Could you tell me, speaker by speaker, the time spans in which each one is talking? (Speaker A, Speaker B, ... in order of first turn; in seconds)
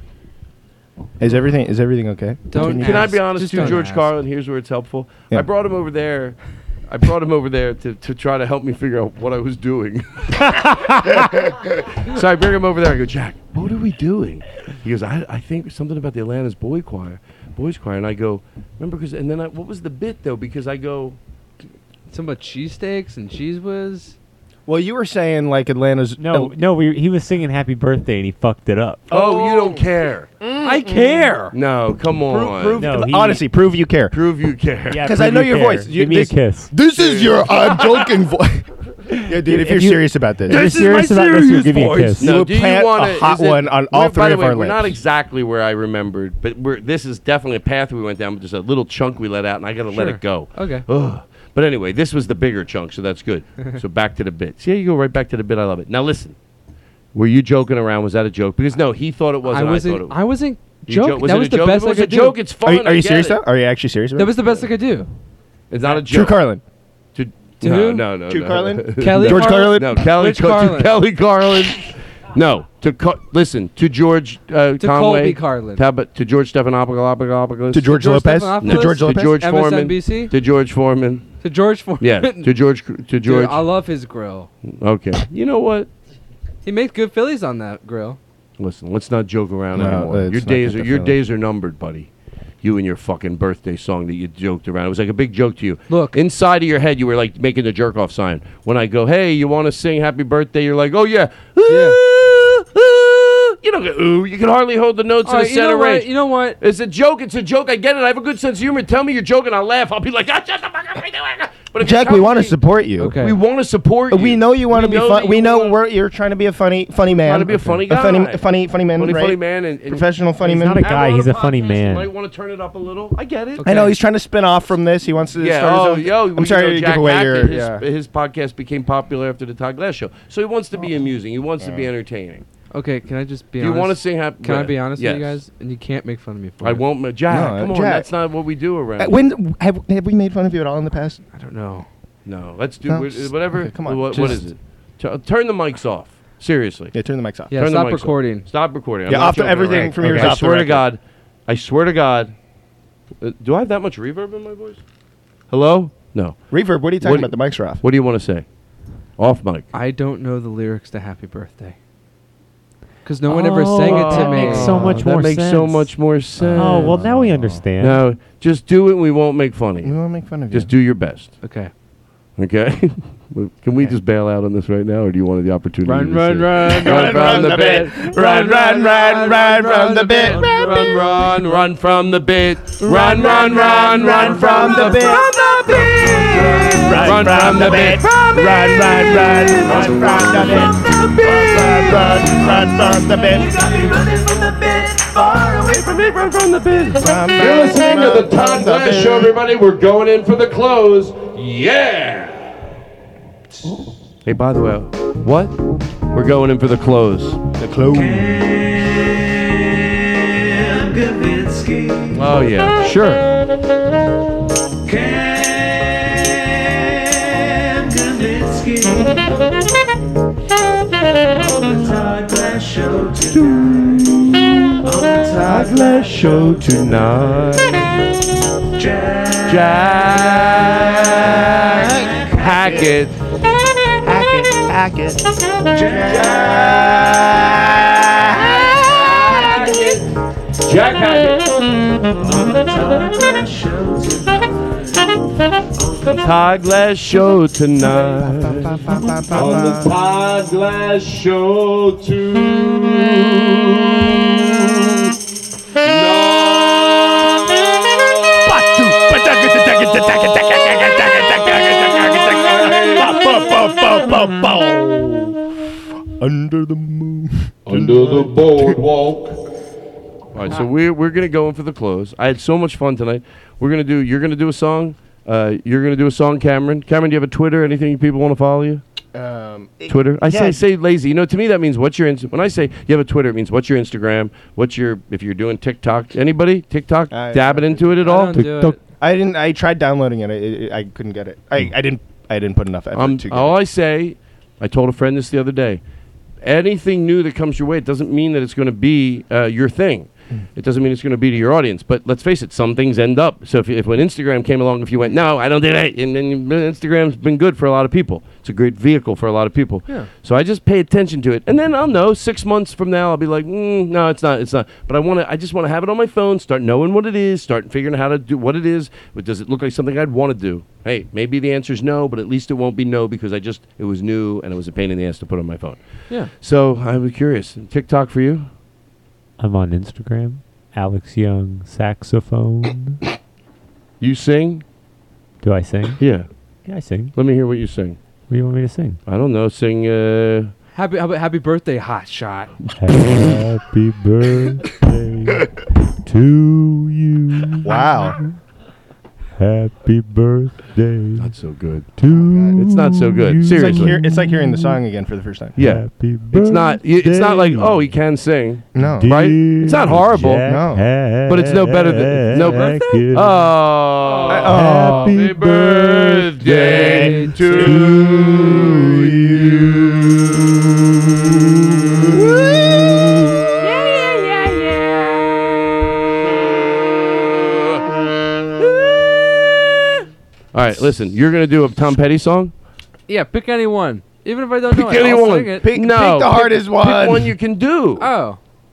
Speaker A: 1.2-3.8, 24.7-26.5, 29.1-29.8, 30.4-31.5, 32.2-34.1, 35.0-40.7, 42.2-45.0, 62.6-64.5, 65.8-66.6, 68.3-70.0, 77.7-79.4, 89.7-91.2, 111.8-113.2, 114.1-120.9, 123.6-127.8, 131.6-131.9, 137.3-138.1, 139.0-141.2, 142.9-144.4, 146.9-147.5, 149.1-150.8, 156.5-157.8, 164.7-165.1, 166.4-167.7, 169.8-170.7, 176.6-181.2, 182.8-185.3, 186.0-193.6, 196.9-199.3, 207.6-208.4, 231.7-232.9, 234.0-235.2, 237.2-239.2, 247.9-249.9, 258.4-265.5, 266.2-268.8, 279.1-280.6, 287.1-288.0, 289.0-293.6, 347.6-348.2, 352.1-352.6, 353.5-355.6, 358.7-359.1, 360.4-360.9, 364.3-365.1, 366.4-370.0, 371.9-372.9, 385.6-387.3
Speaker B: 2.5-4.1, 22.1-24.1, 30.6-31.5, 49.9-50.8, 59.4-62.4, 64.2-65.1, 67.6-68.0, 69.0-71.0, 74.8-75.8, 77.9-80.3, 81.4-82.5, 83.2-84.5, 86.6-88.2, 95.9-96.2, 101.7-102.0, 105.2-106.6, 113.0-113.3, 123.6-124.0, 132.7-136.8, 141.3-141.9, 144.1-144.4, 147.5-148.4, 149.8-150.3, 159.7-161.8, 163.0-164.9, 171.4-171.7, 175.8-180.6, 288.0-288.8, 340.7-342.5, 362.3-363.0, 364.0-364.5, 366.5-367.9, 373.6-375.6, 383.1-385.6, 388.0-388.4
Speaker C: 2.5-21.2, 29.1-30.3, 31.5-32.9, 34.1-35.1, 36.9-38.1, 40.5-56.4, 57.1-60.2, 60.8-63.4, 65.7-66.4, 67.1-77.9, 78.6-81.3, 82.0-83.7, 84.7-85.9, 88.6-92.1, 92.6-106.1, 106.6-112.5, 113.2-115.8, 117.2-118.4, 119.0-120.1, 120.8-123.9, 125.4-132.4, 133.6-135.4, 136.6-139.2, 142.2-146.9, 147.5-152.3, 153.2-154.8, 155.5-156.4, 157.0-158.4, 159.2-159.7, 163.8-167.0, 167.8-170.0, 170.5-171.3, 172.4-178.1, 180.2-192.1, 195.3-202.6, 204.2-205.6, 206.1-207.4, 212.1-213.2, 223.3-224.8, 225.4-228.0, 229.5-233.1, 236.0-237.6, 238.2-240.0, 240.6-241.5, 246.1-255.1, 255.8-257.3, 262.1-263.6, 267.6-269.4, 270.3-278.8, 279.9-288.5, 292.9-295.8, 296.4-325.8, 326.3-328.5, 334.0-334.6, 336.0-336.3, 337.1-338.0, 339.1-340.5, 351.2-351.9, 352.6-354.0, 355.6-360.5, 361.2-370.1, 377.4-377.8, 380.5-382.5, 384.7-388.1
Speaker D: 26.2-29.1, 32.8-33.4, 34.9-36.7, 39.3-42.3, 120.4-122.1, 163.2-165.9, 166.6-168.0, 288.3-288.8, 329.4-333.0, 335.4-336.0, 336.6-337.1, 338.3-339.0, 342.8-348.3, 349.4-351.3, 352.0-354.8, 355.6-357.9, 358.8-363.5, 364.4-366.4, 367.6-368.4
Speaker E: 185.1-187.2, 190.4-195.9, 207.9-212.3, 214.8-219.3, 221.3-224.2, 224.8-227.6, 228.7-232.9, 235.7-237.2, 239.1-239.9, 242.2-245.1, 245.7-246.3